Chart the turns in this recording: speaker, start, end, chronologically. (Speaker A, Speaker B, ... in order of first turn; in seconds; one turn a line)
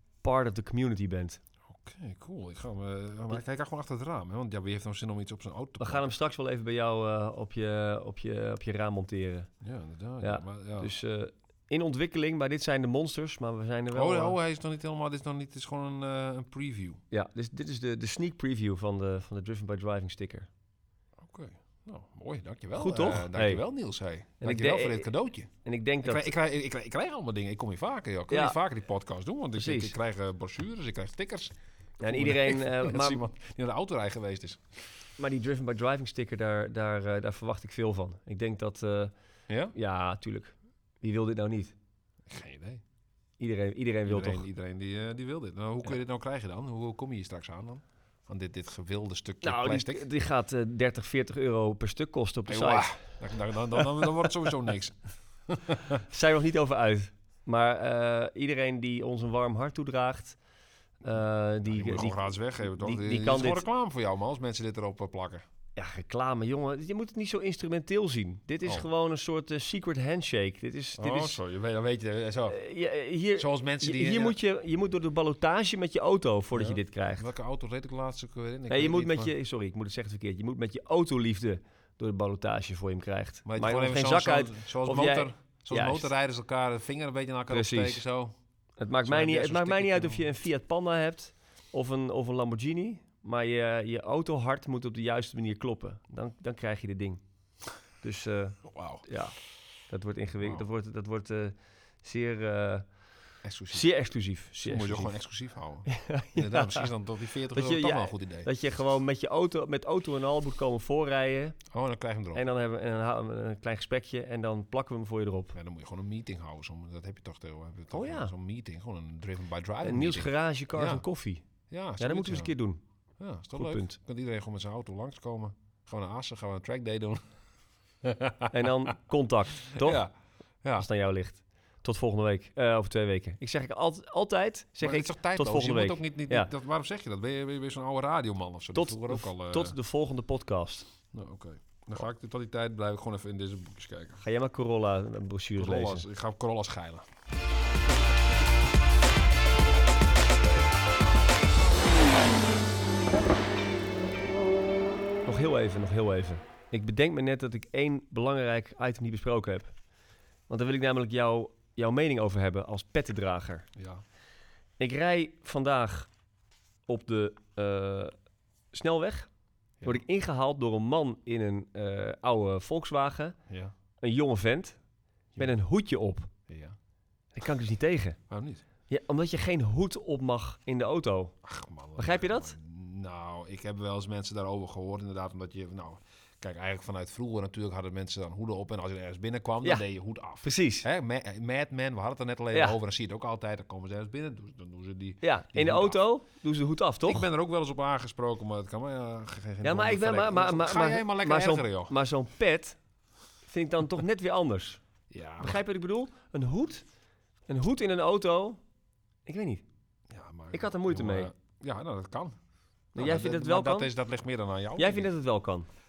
Speaker A: 0.2-1.4
Speaker B: 1.7-6.1
Speaker A: 5.8-9.5
Speaker B: 9.6-10.9
Speaker A: 10.2-14.4
Speaker B: 13.9-17.0
Speaker A: 17.1-20.5
Speaker B: 21.2-25.5
Speaker A: 22.8-23.6
Speaker A: 24.4-25.1
Speaker A: 25.6-26.3
Speaker B: 26.0-31.6
Speaker A: 28.3-28.6
Speaker A: 29.6-30.0
Speaker A: 32.0-33.2
Speaker B: 32.1-34.8
Speaker A: 35.2-39.1
Speaker A: 39.7-41.7
Speaker B: 42.3-42.8
Speaker A: 43.4-44.5
Speaker B: 44.1-50.1
Speaker A: 49.4-52.9
Speaker B: 52.5-56.0
Speaker A: 56.1-60.4
Speaker A: 61.0-63.6
Speaker B: 61.1-65.4
Speaker A: 65.8-71.4
Speaker B: 71.0-72.6
Speaker A: 72.5-77.3
Speaker B: 73.4-74.4
Speaker B: 76.5-79.3
Speaker A: 78.7-86.1
Speaker B: 83.5-88.3
Speaker A: 87.5-88.0
Speaker A: 88.8-97.2
Speaker B: 89.0-90.3
Speaker A: 98.0-102.9
Speaker B: 98.7-99.0
Speaker B: 103.4-103.9
Speaker A: 103.7-105.2
Speaker B: 104.6-108.5
Speaker A: 105.9-106.9
Speaker A: 107.5-111.6
Speaker B: 111.7-112.4
Speaker A: 112.3-115.6
Speaker B: 115.5-121.0
Speaker A: 117.9-118.3
Speaker A: 119.8-121.4
Speaker B: 121.7-122.5
Speaker A: 122.0-122.8
Speaker B: 123.2-127.3
Speaker A: 123.5-124.0
Speaker B: 128.0-128.9
Speaker A: 128.5-130.1
Speaker B: 129.7-130.1
Speaker A: 130.8-136.5
Speaker B: 134.8-139.8
Speaker A: 138.7-140.9
Speaker B: 141.1-144.2
Speaker A: 144.2-146.1
Speaker B: 145.6-147.1
Speaker A: 155.3-159.8
Speaker A: 160.5-163.7
Speaker B: 163.8-164.0
Speaker A: 164.8-166.1
Speaker A: 166.9-168.1
Speaker A: 168.7-169.3
Speaker A: 169.8-173.4
Speaker A: 174.0-174.8
Speaker A: 175.4-176.3
Speaker B: 176.5-176.8
Speaker A: 177.3-178.2
Speaker B: 178.3-178.6
Speaker A: 178.9-181.3
Speaker B: 181.4-196.0
Speaker A: 182.0-182.5
Speaker A: 190.4-190.9
Speaker A: 195.2-197.2
Speaker B: 197.1-201.9
Speaker A: 199.6-202.8
Speaker A: 203.5-204.8
Speaker B: 205.1-205.6
Speaker A: 205.4-206.8
Speaker A: 207.5-208.6
Speaker A: 209.3-209.6
Speaker B: 210.1-212.4
Speaker A: 210.5-211.3
Speaker B: 212.9-215.1
Speaker A: 213.0-213.9
Speaker A: 214.8-215.7